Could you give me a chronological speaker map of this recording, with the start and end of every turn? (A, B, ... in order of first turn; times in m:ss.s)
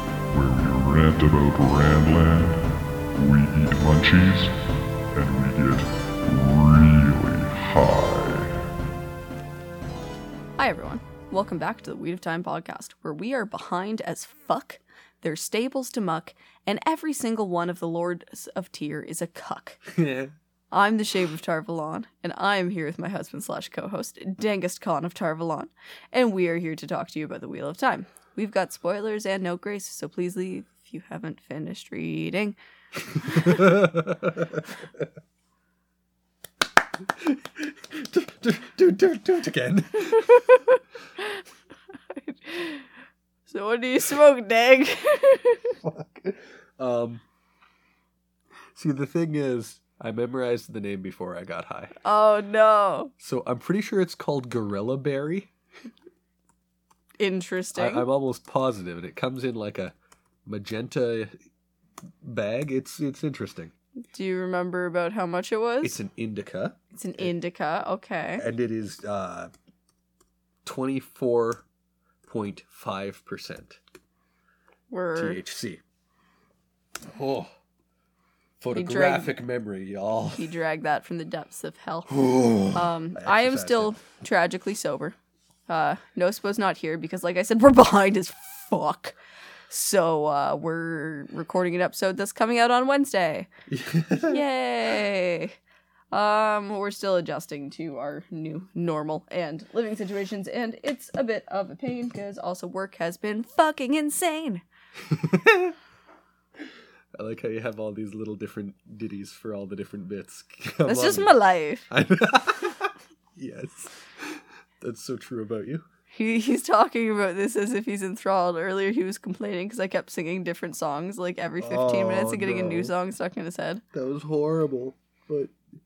0:00.3-0:04.6 A
0:05.1-0:08.6 A
0:10.6-0:19.8 B
0:19.9-0:20.3 C
0:20.7-0:32.6 B
0:33.2-0:35.0 C
0:33.2-0:33.6 B
0:37.0-0:40.3 C
0:40.1-0:41.4 B
0:42.1-0:42.9 B
0:43.5-0:45.8 B
0:45.8-0:47.2 C
0:48.7-0:51.9 C
0:52.0-0:53.1 B
0:53.2-0:55.5 C
0:57.2-0:58.1 B
0:57.8-1:00.0 C
1:00.5-1:01.3 C
1:02.2-1:03.7 C
1:04.1-1:06.0 B
1:05.8-1:07.3 C
1:06.9-1:08.5 B
1:08.4-1:09.5 C
1:10.6-1:11.6 C
1:12.2-1:13.8 C
1:14.9-1:15.4 B
1:15.2-1:15.8 C
1:17.0-1:17.5 C
1:18.6-1:20.5 C
1:18.7-1:19.3 B
1:20.4-1:22.2 B
1:22.1-1:23.9 C
1:22.7-1:25.2 B
1:25.7-1:29.2 B
1:29.7-1:33.5 B
1:33.7-1:34.4 C
1:34.3-1:35.6 B
1:36.1-1:44.6 B
1:45.0-1:45.8 C
1:47.2-1:51.3 C
1:50.9-1:51.9 B
1:51.9-1:55.8 C
1:56.1-2:03.8 B
2:01.6-2:02.9 C
2:03.9-2:05.5 C